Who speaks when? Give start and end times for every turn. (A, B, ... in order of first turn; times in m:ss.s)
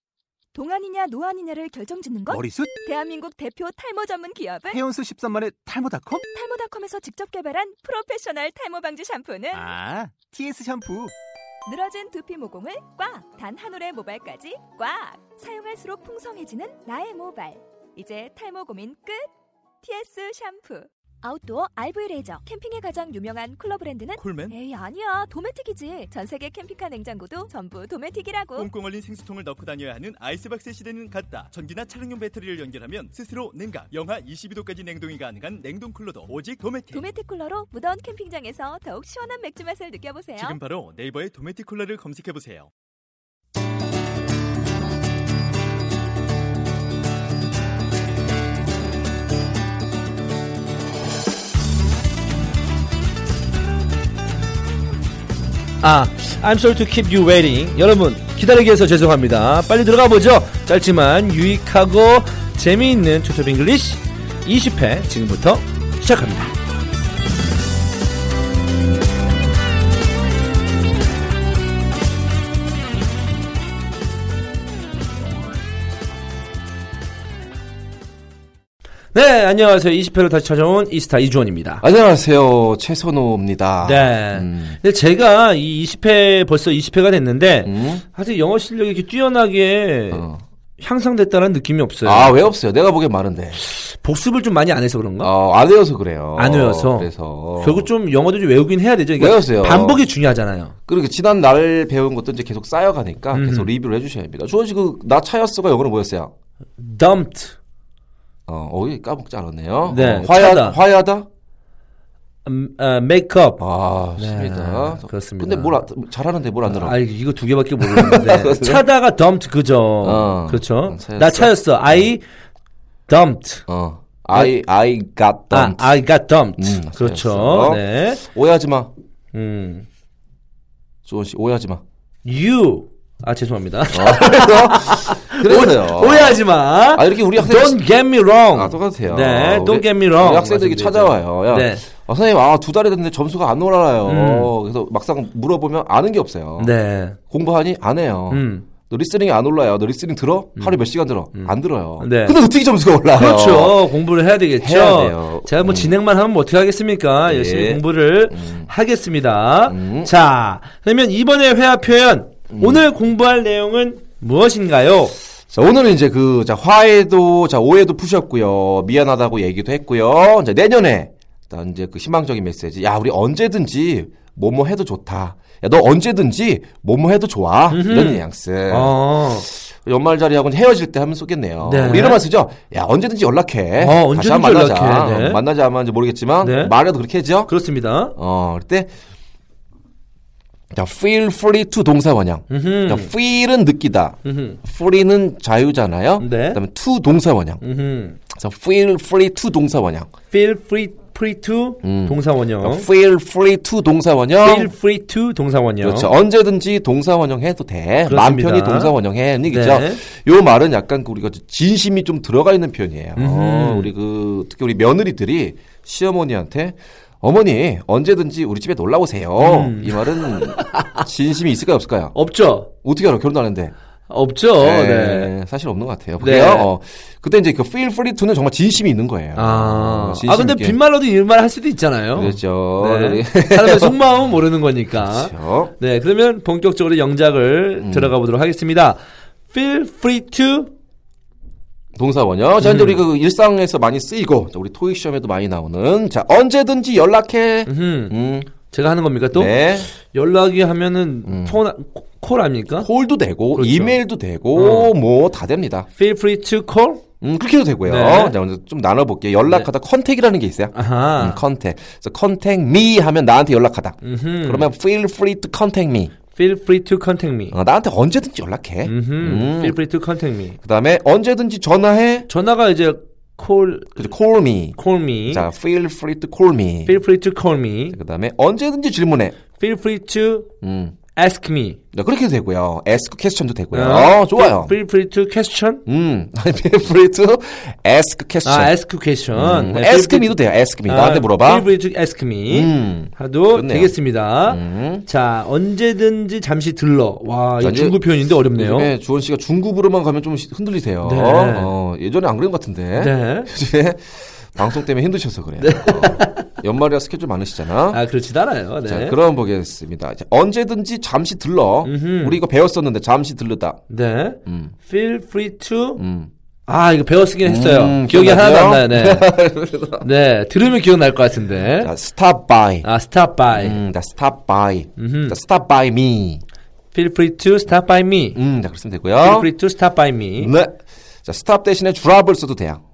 0:00.5-0:04.9 A
0:02.3-0:02.7 B
0:04.7-0:06.2 B
0:06.1-0:09.8 A
0:09.6-0:11.1 B
0:11.6-0:19.3 A
0:19.8-0:28.7 A
0:24.2-0:24.6 C
0:28.5-0:37.1 C
0:36.9-0:40.6 A
0:40.4-0:42.7 C
0:55.8-1:06.5 D
1:19.1-1:21.8 D
1:21.8-1:24.8 E
1:23.8-1:30.2 D
1:27.6-1:28.0 E
1:30.1-1:30.4 E
1:30.8-1:32.4 D
1:32.0-1:33.6 E
1:33.6-1:35.3 D
1:35.2-1:37.9 E
1:36.4-1:40.7 D
1:39.2-1:40.0 E
1:40.9-1:46.3 E
1:43.3-1:43.7 D
1:46.8-1:47.6 D
1:48.5-1:51.3 E
1:49.9-1:50.8 D
1:52.4-1:53.6 D
1:53.6-1:57.0 E
1:54.2-1:55.8 D
1:56.7-2:02.2 D
1:57.8-1:58.8 E
2:00.0-2:02.1 E
2:03.1-2:03.6 D
2:03.7-2:06.0 E
2:05.5-2:08.2 D
2:06.6-2:08.9 E
2:09.3-2:09.9 D
2:11.0-2:11.8 E
2:12.2-2:21.8 D
2:13.9-2:17.8 E
2:18.5-2:26.8 E
2:24.0-2:24.5 D
2:26.6-2:27.2 D
2:27.3-2:33.9 E
2:28.3-2:28.7 D
2:31.3-2:32.4 D
2:33.1-2:45.1 D
2:34.6-2:36.0 E
2:37.2-2:38.7 E
2:39.6-2:40.1 E
2:42.5-2:42.8 E
2:45.5-3:07.5 E
2:57.7-2:59.5 D
3:01.6-3:02.2 D
3:03.8-3:05.4 D
3:06.4-3:06.7 D
3:07.4-3:08.1 D
3:08.2-3:08.9 E
3:10.7-3:17.6 E
3:12.5-3:13.1 D
3:14.2-3:14.6 D
3:16.2-3:16.6 D
3:17.6-3:18.2 D
3:18.3-3:20.1 E
3:20.3-3:22.9 D
3:21.8-3:24.7 E
3:24.4-3:26.1 D
3:25.8-3:42.1 E
3:28.0-3:28.9 D
3:29.5-3:30.0 D
3:33.2-3:33.9 D
3:39.4-3:41.0 D
3:42.1-3:42.7 D
3:42.8-3:43.7 E
3:44.1-3:45.3 D
3:44.6-3:50.8 E
3:46.2-3:46.7 D
3:49.3-4:00.7 D
3:52.1-3:54.0 E
3:55.0-3:55.7 E
3:57.8-3:58.1 E
4:02.0-4:08.5 E
4:02.6-4:03.0 D
4:07.6-4:12.9 D
4:09.3-4:09.9 E
4:11.2-4:11.6 E
4:12.8-4:15.9 E
4:13.5-4:14.0 D
4:14.5-4:14.9 D
4:15.9-4:17.0 D
4:17.2-4:26.1 E
4:17.8-4:18.4 D
4:20.7-4:21.4 D
4:24.0-4:24.7 D
4:26.3-4:27.6 D
4:27.5-4:29.8 E
4:28.8-4:30.6 D
4:30.6-4:32.3 E
4:32.3-4:34.0 D
4:33.9-4:37.0 E
4:34.8-4:35.4 D
4:36.8-4:38.0 D
4:37.9-4:39.4 E
4:39.6-4:40.5 D
4:40.6-4:41.0 E
4:41.1-4:41.8 D
4:41.9-4:44.8 E
4:43.7-4:45.8 D
4:45.8-4:48.7 E
4:48.4-4:58.9 D
4:49.3-4:51.7 E
4:52.5-4:53.9 E
4:54.4-4:55.0 E
4:57.6-4:58.0 E
4:58.5-5:08.0 E
5:01.0-5:01.7 D
5:03.0-5:03.5 D
5:05.6-5:06.5 D
5:07.9-5:09.2 D
5:08.8-5:13.8 E
5:11.8-5:12.4 D
5:13.9-5:16.0 D
5:14.4-5:14.7 E
5:16.0-5:16.3 E
5:16.7-5:19.4 D
5:17.4-5:20.0 E
5:20.0-5:21.9 D
5:21.8-5:22.9 E
5:22.8-5:23.8 D
5:23.5-5:26.4 E
5:25.0-5:25.4 D
5:26.9-5:28.4 D
5:28.3-5:29.5 E
5:29.2-5:30.5 D
5:30.4-5:32.8 E